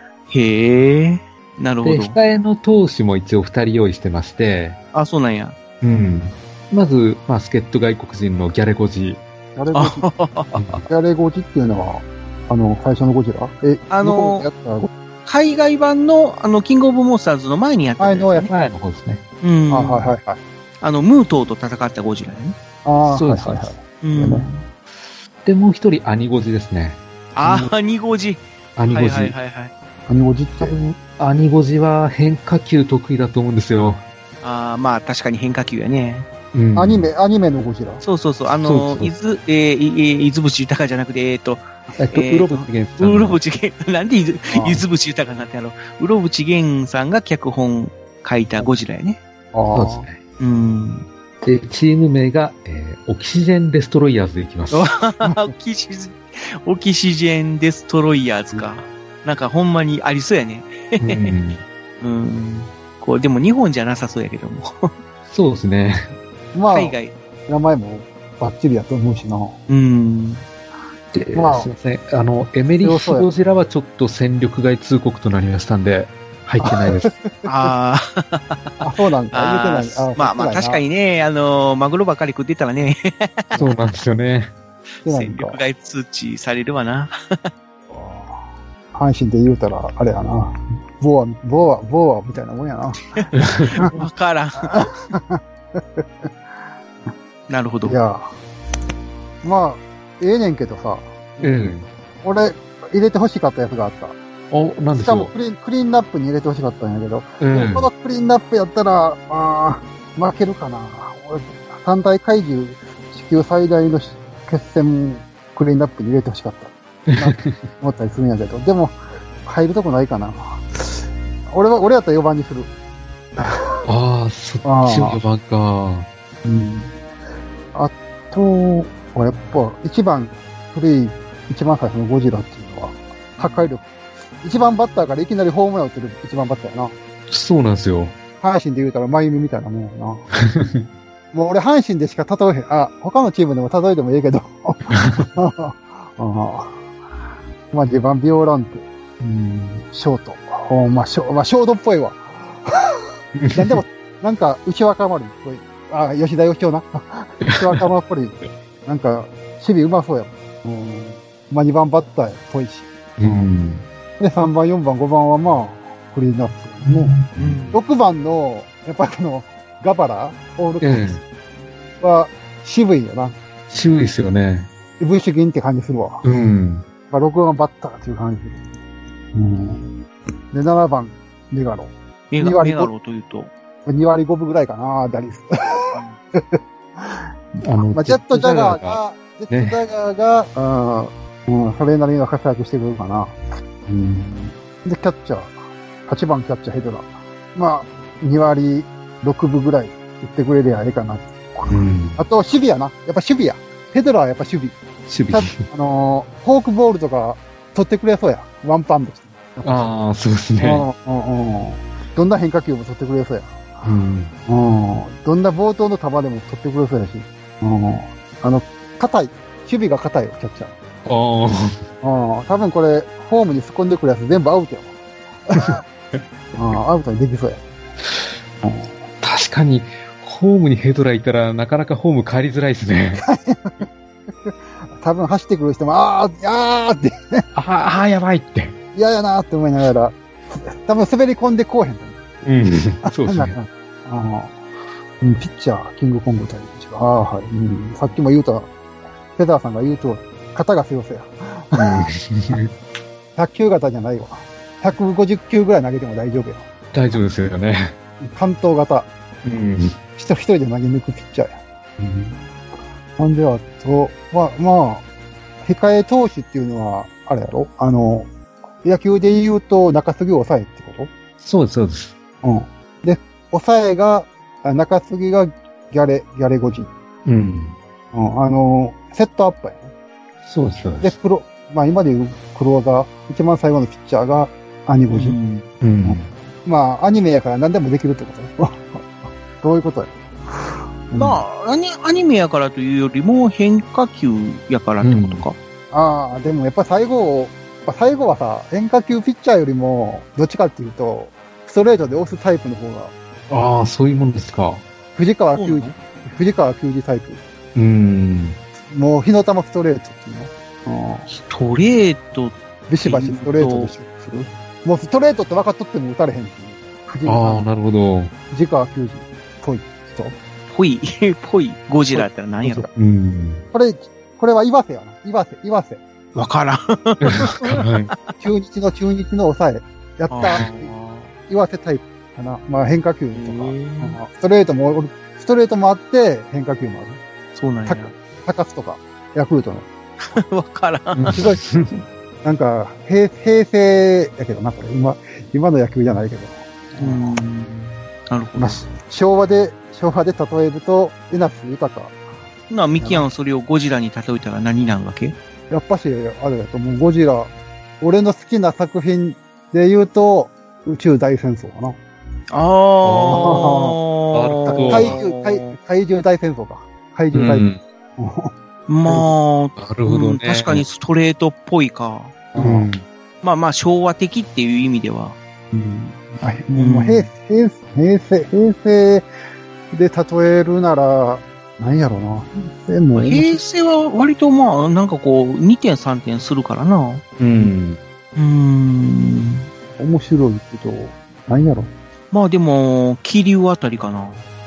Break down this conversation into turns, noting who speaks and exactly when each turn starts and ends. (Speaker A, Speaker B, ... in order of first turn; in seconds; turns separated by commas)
Speaker A: 0.3-2.2, Speaker B: 1.8-4.8, Speaker A: 4.9-5.5, Speaker B: 5.8-9.2, Speaker C: 9.6-10.1, Speaker A: 9.7-10.6, Speaker B: 10.5-10.8, Speaker C: 10.9-14.9, Speaker A: 13.9-14.5, Speaker A: 15.2-18.5, Speaker C: 18.0-18.5, Speaker B: 18.5-19.2, Speaker A: 19.4-20.1, Speaker C: 19.7-20.4, Speaker A: 20.8-22.6, Speaker C: 22.8-24.5, Speaker B: 23.1-23.7, Speaker A: 24.0-24.6, Speaker B: 25.4-27.7, Speaker A: 27.3-29.7, Speaker B: 28.8-29.3, Speaker C: 30.1-30.7, Speaker B: 30.6-34.0, Speaker A: 34.4-36.3, Speaker B: 36.5-37.1, Speaker C: 36.8-38.0, Speaker A: 38.0-49.2, Speaker B: 38.6-39.1, Speaker B: 42.0-43.4, Speaker C: 44.5-44.8, Speaker C: 49.5-50.0, Speaker B: 49.7-50.2, Speaker A: 50.4-51.1, Speaker B: 51.4-54.9, Speaker A: 54.7-61.3, Speaker C: 55.2-55.5, Speaker B: 61.0-61.6, Speaker A: 62.0-64.9, Speaker B: 65.3-66.1, Speaker C: 66.5-67.0, Speaker A: 66.7-67.1, Speaker C: 67.5-69.6, Speaker A: 69.7-70.4, Speaker B: 71.1-77.1, Speaker C: 71.3-71.7, Speaker C: 72.8-73.3, Speaker C: 76.6-77.7, Speaker A: 77.4-78.8, Speaker C: 78.8-80.8, Speaker A: 79.3-83.6, Speaker B: 83.5-84.5, Speaker A: 85.0-87.5, Speaker C: 85.0-85.6, Speaker C: 87.9-94.0, Speaker A: 93.1-94.8, Speaker B: 93.4-93.7, Speaker C: 94.6-96.3, Speaker A: 97.5-98.0, Speaker C: 97.8-98.3, Speaker C: 99.4-101.1, Speaker B: 101.4-101.9, Speaker C: 102.2-104.2, Speaker B: 104.5-105.3, Speaker C: 104.9-122.7, Speaker B: 107.4-107.9, Speaker B: 117.1-117.6, Speaker C: 123.4-123.8, Speaker B: 123.8-126.1, Speaker C: 124.6-125.2, Speaker C: 126.4-126.9, Speaker C: 127.7-133.9, Speaker C: 134.4-136.9, Speaker B: 137.3-138.1, Speaker C: 138.4-140.2, Speaker B: 140.4-140.8, Speaker C: 141.3-146.8, Speaker C: 147.7-153.0, Speaker B: 153.3-153.8, Speaker C: 153.5-163.5, Speaker B: 163.2-163.8, Speaker C: 164.2-167.2, Speaker B: 167.1-167.7, Speaker A: 167.4-167.8, Speaker C: 167.7-171.2, Speaker B: 170.8-171.2, Speaker C: 172.0-173.3, Speaker B: 173.7-174.7, Speaker C: 175.0-176.2, Speaker B: 176.2-176.8, Speaker C: 177.1-178.7, Speaker C: 179.3-182.9, Speaker A: 182.3-183.5, Speaker C: 183.8-204.8, Speaker B: 187.6-189.8, Speaker B: 201.7-202.2, Speaker B: 205.1-205.6, Speaker C: 205.3-209.9, Speaker B: 209.6-210.8, Speaker C: 210.6-213.9, Speaker B: 213.8-214.3, Speaker C: 214.4-220.7, Speaker B: 221.1-221.8, Speaker C: 222.0-224.9, Speaker C: 225.5-225.8, Speaker C: 226.5-227.6, Speaker C: 228.6-229.0, Speaker B: 229.2-233.2, Speaker C: 233.2-233.9, Speaker C: 234.4-237.4, Speaker B: 237.5-238.7, Speaker C: 238.9-242.2, Speaker B: 242.4-243.5, Speaker C: 243.0-244.5, Speaker C: 245.2-248.7, Speaker C: 249.3-252.6, Speaker B: 251.7-252.7, Speaker C: 253.3-256.6, Speaker B: 256.9-257.9, Speaker C: 258.2-259.1, Speaker B: 259.4-259.9, Speaker C: 260.1-262.4, Speaker C: 263.2-265.0, Speaker C: 265.6-268.3, Speaker C: 268.8-271.1, Speaker B: 271.4-272.1, Speaker C: 272.4-276.9, Speaker B: 277.2-277.8, Speaker C: 278.1-279.9, Speaker B: 280.4-281.1, Speaker C: 281.0-285.4, Speaker A: 285.1-285.7, Speaker B: 285.8-286.3, Speaker C: 286.0-291.4, Speaker A: 291.2-295.6, Speaker B: 295.0-295.4, Speaker C: 295.9-303.1, Speaker B: 303.5-304.8, Speaker C: 305.1-307.4, Speaker A: 305.5-305.9, Speaker B: 307.7-308.6, Speaker C: 308.9-311.3, Speaker A: 311.3-313.9, Speaker C: 312.9-317.7, Speaker B: 317.2-318.3, Speaker C: 318.5-320.4, Speaker A: 320.7-322.9, Speaker C: 322.1-322.9, Speaker B: 322.9-323.6, Speaker C: 323.7-326.0, Speaker A: 326.4-327.8, Speaker B: 327.2-328.1, Speaker C: 328.4-330.9, Speaker A: 330.3-331.3, Speaker C: 331.5-337.2, Speaker A: 333.3-334.2, Speaker A: 337.5-338.1, Speaker C: 337.9-339.9, Speaker A: 340.3-341.4, Speaker B: 341.1-341.9, Speaker C: 341.3-341.7, Speaker C: 342.4-347.4, Speaker A: 347.0-348.8, Speaker C: 348.6-352.1, Speaker A: 352.7-355.4, Speaker C: 353.0-353.2, Speaker C: 355.7-362.0, Speaker A: 362.5-365.8, Speaker B: 363.1-363.6, Speaker C: 363.1-364.0, Speaker B: 364.3-365.2, Speaker C: 364.7-368.5, Speaker B: 367.3-367.8, Speaker A: 368.9-372.4, Speaker C: 369.1-369.3, Speaker B: 369.8-370.8, Speaker C: 372.5-372.9, Speaker B: 372.6-373.0, Speaker A: 373.4-375.4, Speaker C: 375.7-379.3, Speaker A: 376.8-377.3, Speaker C: 379.9-383.6, Speaker A: 383.1-387.2, Speaker B: 387.4-388.0, Speaker A: 388.4-389.6, Speaker C: 390.0-391.9, Speaker A: 392.3-394.4